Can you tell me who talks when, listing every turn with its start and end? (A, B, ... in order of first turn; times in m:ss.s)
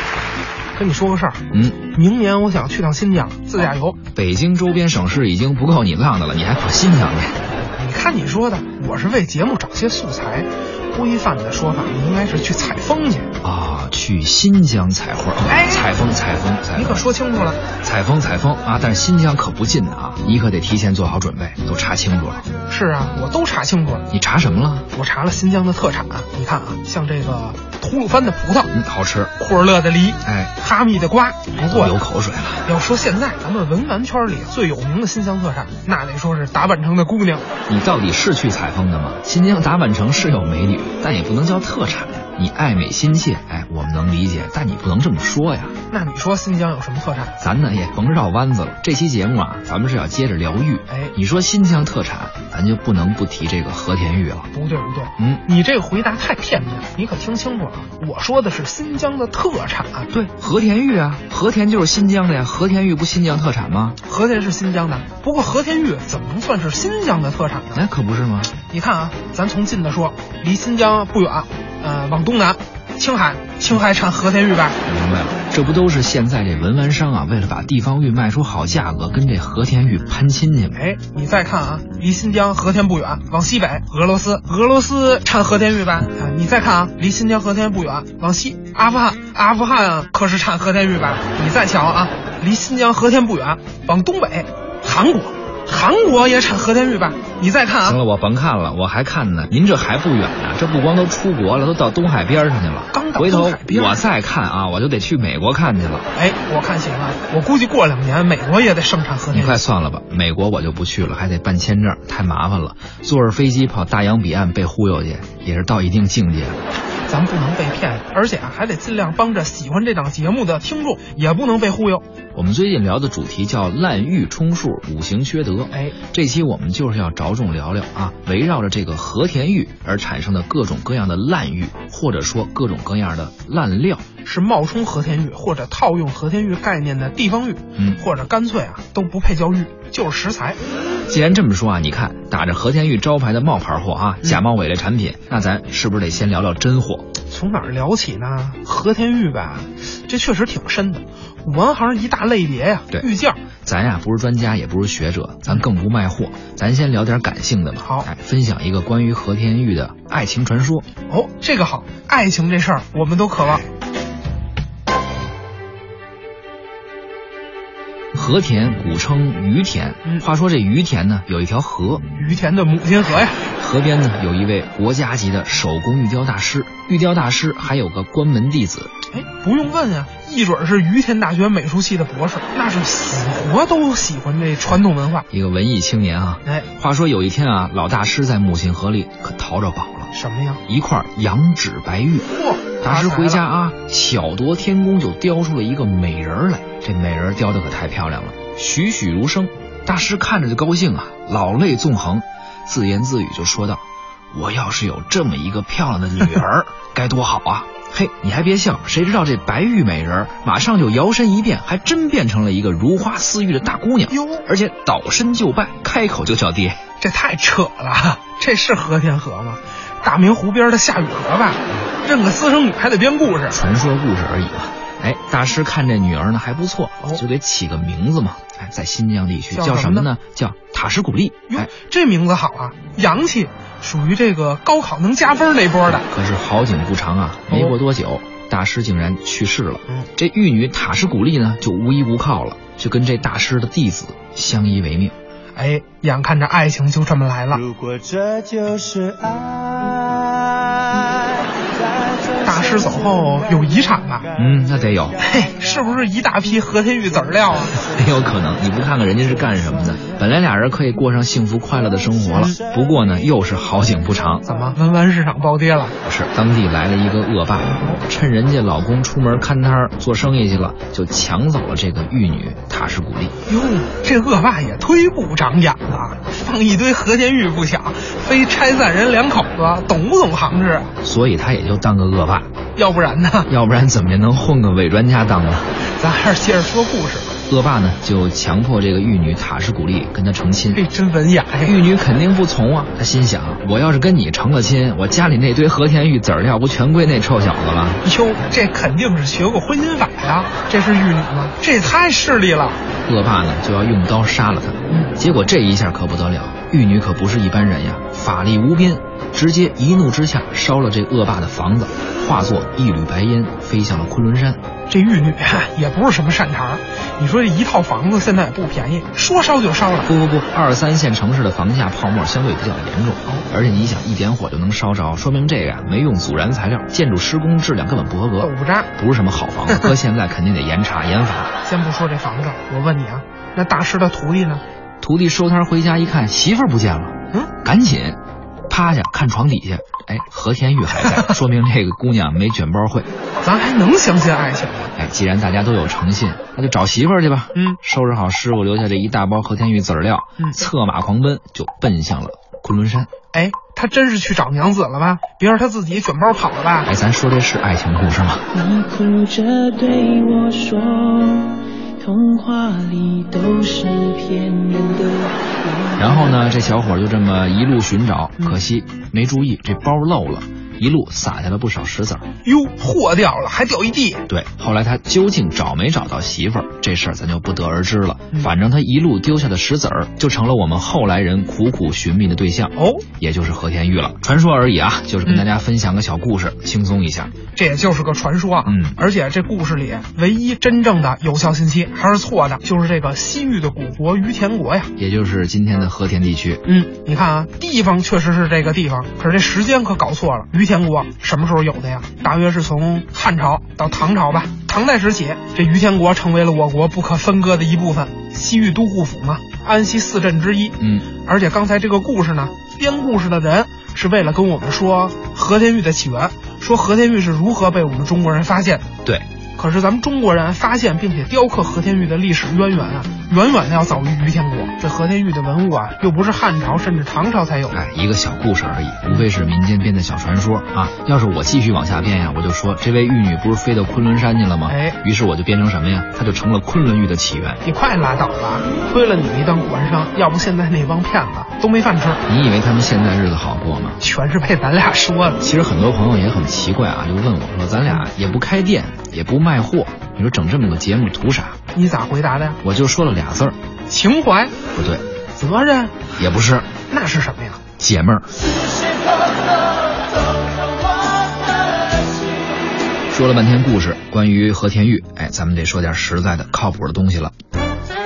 0:00.7-0:04.0 A
0:01.5-0:01.8 B
0:04.1-0:07.4 B
0:07.6-0:13.3 A
0:13.4-0:17.0 B
0:15.4-0:15.9 A
0:16.7-0:17.6 A
0:17.8-0:22.5 B
0:22.7-0:24.0 A
0:24.1-0:24.9 B
0:24.9-0:28.7 A
0:28.7-0:29.3 B
0:29.4-0:31.9 A
0:30.2-0:30.5 B
0:31.7-0:32.7 B
0:32.6-0:37.4 A
0:37.7-0:45.7 B
0:45.9-0:47.4 A
0:47.4-0:54.5 B
0:50.9-0:51.1 A
0:54.5-1:00.1 A
1:00.1-1:04.0 B
1:04.0-1:07.8 A
1:07.7-1:08.5 B
1:08.7-1:14.8 A
1:14.8-1:20.8 B
1:20.7-1:38.0 A
1:37.8-1:46.1 B
1:42.9-1:44.0 A
1:46.1-1:49.6 A
1:49.3-1:56.6 B
1:57.1-2:02.0 A
2:02.3-2:14.0 B
2:05.7-2:06.0 A
2:14.2-2:20.6 A
2:21.1-2:27.0 B
2:27.3-2:33.4 A
2:33.6-2:40.8 B
2:37.8-2:38.1 A
2:41.1-2:43.6 A
2:48.1-2:52.0 B
2:52.1-2:53.4 A
2:53.4-2:58.9 B
2:59.1-3:05.3 A
3:05.3-3:10.1 B
3:10.1-3:10.6 A
3:10.7-3:12.2 B
3:12.3-3:13.4 A
3:12.8-3:23.8 B
3:24.3-3:36.8 B
3:34.1-3:34.5 A
3:37.0-3:43.6 A
3:43.5-3:51.7 B
3:49.5-3:50.1 A
3:51.5-3:56.1 A
3:56.1-4:05.1 B
3:57.5-3:57.7 A
4:05.6-4:07.6 A
4:12.4-4:14.3 A
4:14.4-4:15.2 B
4:15.2-4:17.8 A
4:17.8-4:24.4 B
4:24.4-4:26.0 A
4:26.0-4:33.3 B
4:33.5-4:40.9 A
4:41.0-4:42.5 B
4:42.8-4:43.5 A
4:43.5-4:45.8 B
4:45.8-4:47.4 A
4:47.5-4:50.8 B
4:50.7-4:51.8 A
4:51.6-4:58.0 B
4:58.0-5:02.8 A
5:03.0-5:14.6 B
5:14.9-5:20.1 A
5:20.0-5:31.5 B
5:28.4-5:28.9 A
5:31.6-5:34.6 A
5:35.0-5:43.1 B
5:43.4-5:44.9 A
5:45.0-5:53.1 B
5:53.3-5:56.9 A
5:56.9-5:58.5 B
5:58.5-6:06.1 C
6:06.0-6:12.2 B
6:12.4-6:14.2 A
6:14.3-6:27.3 B
6:22.8-6:23.0 A
6:27.5-6:34.9 A
6:28.6-6:29.0 B
6:35.0-6:36.6 B
6:36.6-6:58.9 A
6:50.8-6:51.1 B
6:59.6-7:07.8 A
7:07.7-7:17.6 B
7:14.6-7:15.0 A
7:17.6-7:22.2 A
7:22.3-7:24.0 B
7:24.0-7:25.4 A
7:25.4-7:31.6 B
7:31.7-7:32.6 A
7:32.6-7:33.6 B
7:33.9-7:34.5 A
7:34.7-7:35.0 B
7:35.3-7:36.0 A
7:36.2-7:36.7 B
7:36.8-7:37.6 A
7:37.8-7:38.3 B
7:43.1-7:47.3 B